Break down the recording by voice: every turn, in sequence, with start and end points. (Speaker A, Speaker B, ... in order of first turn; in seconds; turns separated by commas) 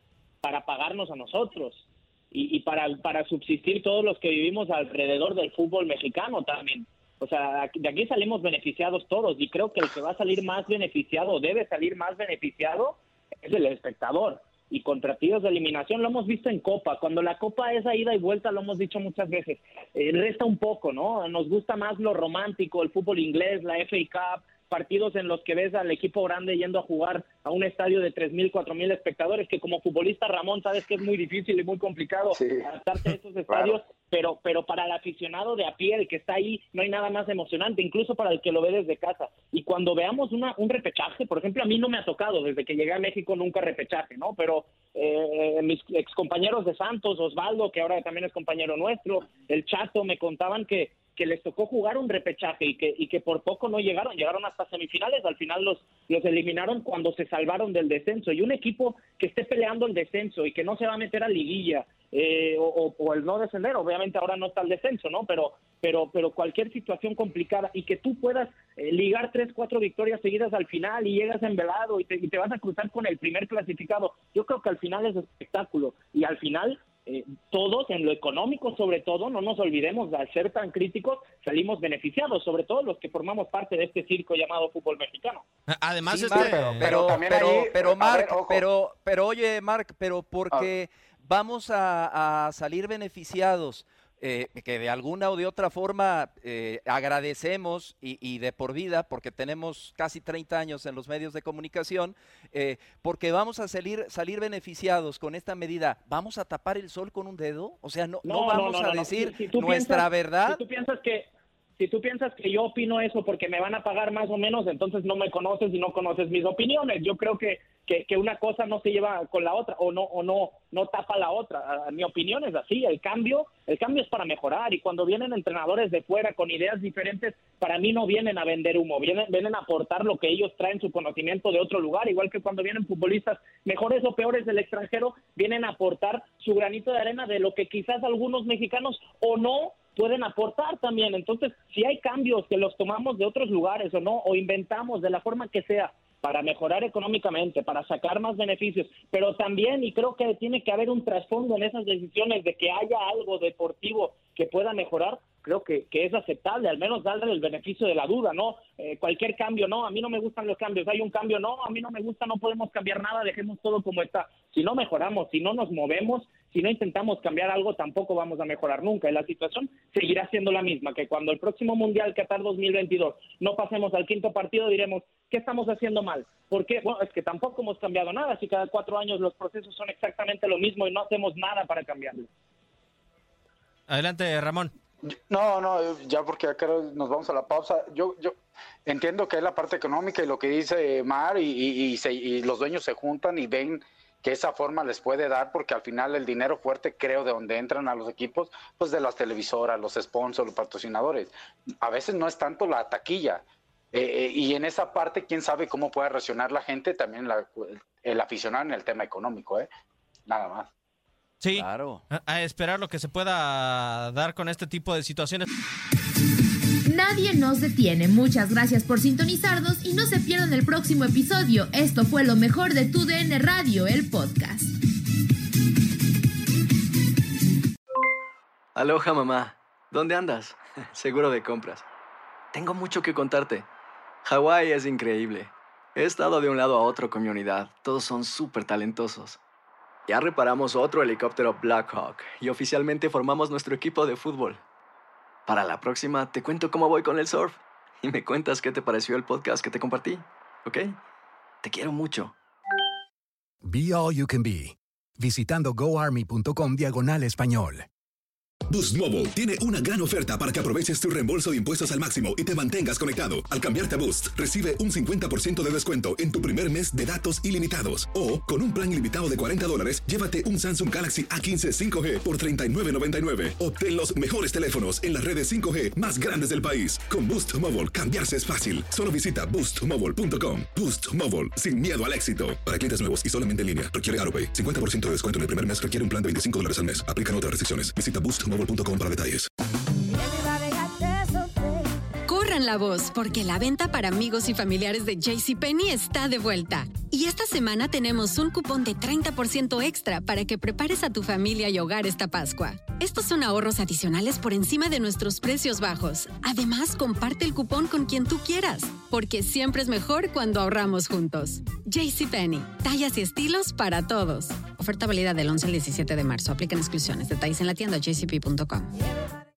Speaker A: 0.4-85.4, Speaker B: 32.3-32.7, Speaker B: 33.5-33.8, Speaker C: 85.7-87.0, Speaker D: 86.1-110.6, Speaker B: 86.3-88.6, Speaker A: 108.2-182.3, Speaker C: 183.9-184.7, Speaker B: 185.1-209.7, Speaker B: 210.3-210.7, Speaker C: 211.4-215.5, Speaker D: 211.5-212.0, Speaker E: 216.9-224.7, Speaker F: 228.7-231.8, Speaker F: 232.5-233.7, Speaker F: 234.2-239.4, Speaker F: 240.1-244.6, Speaker F: 245.5-250.9, Speaker F: 251.6-252.3, Speaker G: 253.6-257.9, Speaker H: 258.7-289.5, Speaker I: 292.3-318.9